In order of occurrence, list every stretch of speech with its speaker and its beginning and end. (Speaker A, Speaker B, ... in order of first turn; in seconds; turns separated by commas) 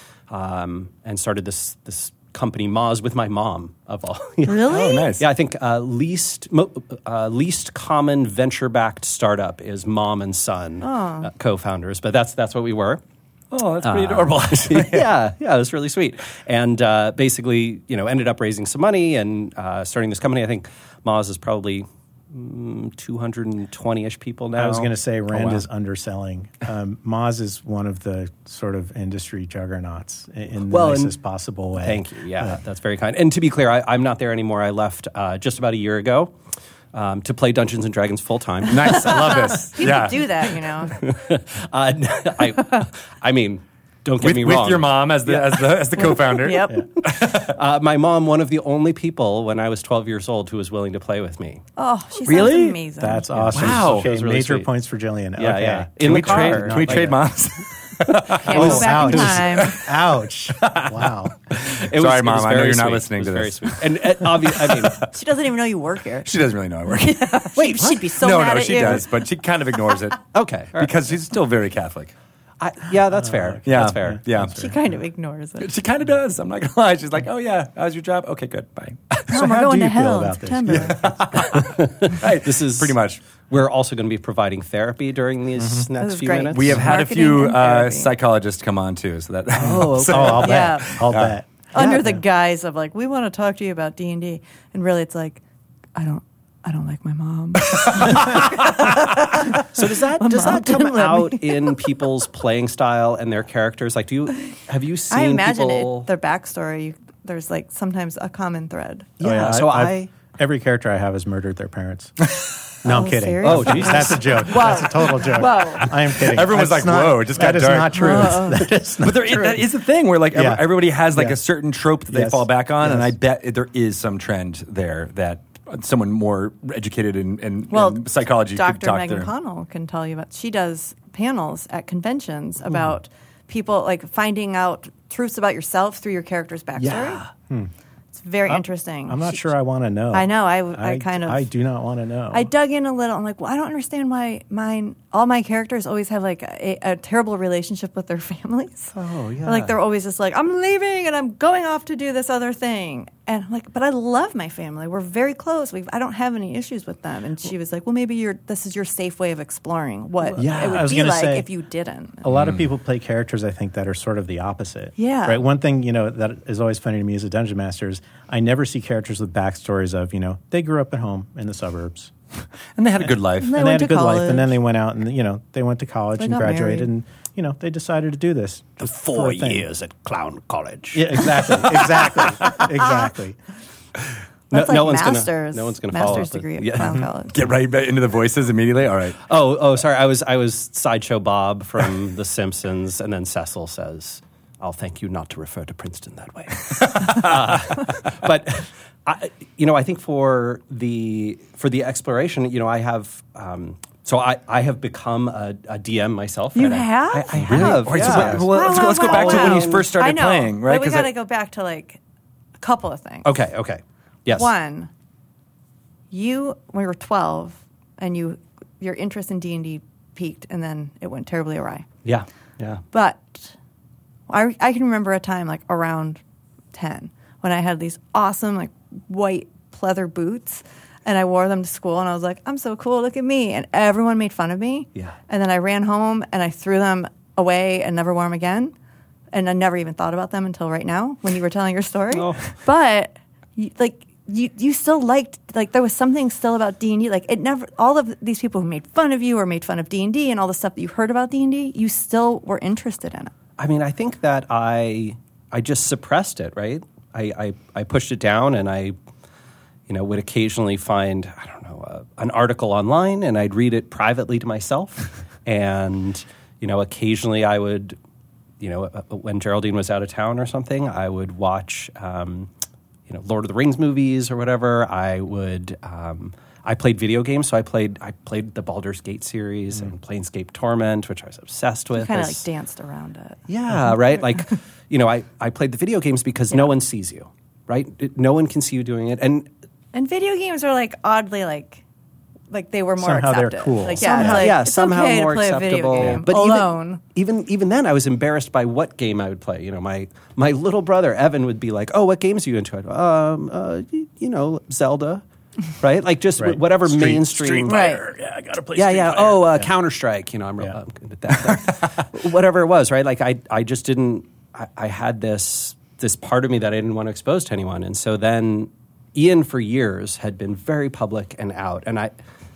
Speaker A: 0.3-13.0, Speaker B: 4.4-5.1, Speaker C: 4.6-5.3, Speaker B: 10.8-11.3, Speaker C: 13.5-15.1, Speaker A: 13.8-25.6, Speaker D: 24.6-32.6, Speaker A: 30.7-31.1, Speaker A: 31.8-36.4, Speaker A: 36.9-39.8, Speaker C: 38.7-40.5, Speaker B: 38.8-41.0, Speaker A: 41.0-46.2, Speaker C: 44.2-47.5, Speaker B: 46.0-46.9, Speaker A: 47.1-51.6, Speaker B: 51.8-53.3, Speaker C: 52.3-52.8, Speaker A: 52.3-52.6, Speaker D: 53.0-57.3, Speaker A: 53.4-54.7, Speaker C: 53.5-54.1, Speaker A: 55.4-57.2, Speaker C: 56.0-60.0, Speaker B: 58.4-59.8, Speaker D: 58.5-61.3, Speaker A: 58.5-59.0, Speaker C: 60.6-65.1, Speaker A: 61.7-65.1, Speaker B: 65.1-66.3, Speaker C: 66.2-72.1, Speaker B: 67.0-69.1, Speaker A: 67.6-68.1, Speaker A: 70.3-70.9, Speaker A: 72.6-74.2, Speaker D: 73.2-74.9, Speaker C: 73.7-74.7, Speaker B: 74.5-75.7, Speaker C: 75.6-79.3, Speaker B: 79.3-81.1, Speaker D: 79.3-81.2, Speaker C: 80.7-83.2, Speaker A: 81.5-86.8, Speaker D: 85.6-85.9, Speaker B: 86.0-88.1, Speaker C: 86.5-91.4, Speaker A: 89.6-90.7, Speaker D: 89.6-92.2, Speaker B: 90.4-91.0, Speaker B: 91.7-95.4, Speaker A: 91.8-92.0, Speaker B: 96.0-102.0, Speaker C: 97.7-99.0, Speaker A: 99.5-106.1, Speaker B: 105.1-109.1, Speaker A: 109.2-110.1, Speaker D: 109.2-112.3, Speaker D: 112.8-119.7, Speaker B: 112.8-115.9, Speaker A: 113.4-114.8, Speaker C: 115.3-129.3, Speaker B: 118.0-118.7, Speaker D: 120.3-121.4, Speaker D: 122.1-123.1, Speaker B: 127.7-137.2, Speaker B: 138.2-139.5, Speaker D: 138.5-142.5, Speaker B: 140.1-141.5, Speaker B: 142.3-162.2, Speaker A: 148.9-149.7, Speaker A: 160.4-160.9, Speaker D: 160.4-161.5, Speaker D: 162.2-172.1, Speaker C: 162.3-162.7, Speaker B: 165.0-165.4, Speaker C: 172.8-173.6, Speaker D: 173.0-179.7, Speaker B: 173.4-174.6, Speaker B: 176.2-176.9, Speaker A: 178.8-182.7, Speaker D: 180.9-183.4, Speaker A: 184.5-187.1, Speaker B: 184.5-187.4, Speaker C: 187.3-189.2, Speaker A: 189.3-209.9, Speaker B: 206.5-212.0, Speaker C: 207.3-211.1, Speaker B: 212.6-213.3, Speaker A: 213.2-214.5, Speaker B: 214.3-214.9, Speaker B: 216.1-221.9, Speaker A: 222.1-222.8, Speaker B: 222.9-223.5, Speaker B: 224.3-226.2, Speaker B: 226.7-238.7, Speaker B: 239.3-253.3, Speaker A: 242.1-242.5, Speaker A: 253.6-258.9, Speaker A: 259.9-268.0, Speaker A: 268.6-272.5, Speaker A: 273.1-282.5, Speaker B: 281.9-283.4, Speaker A: 283.5-289.5, Speaker B: 289.9-291.8, Speaker B: 292.5-297.0, Speaker D: 293.0-294.6, Speaker A: 294.0-305.2, Speaker A: 305.8-308.0, Speaker D: 306.4-309.7, Speaker B: 307.7-308.0, Speaker A: 308.7-322.1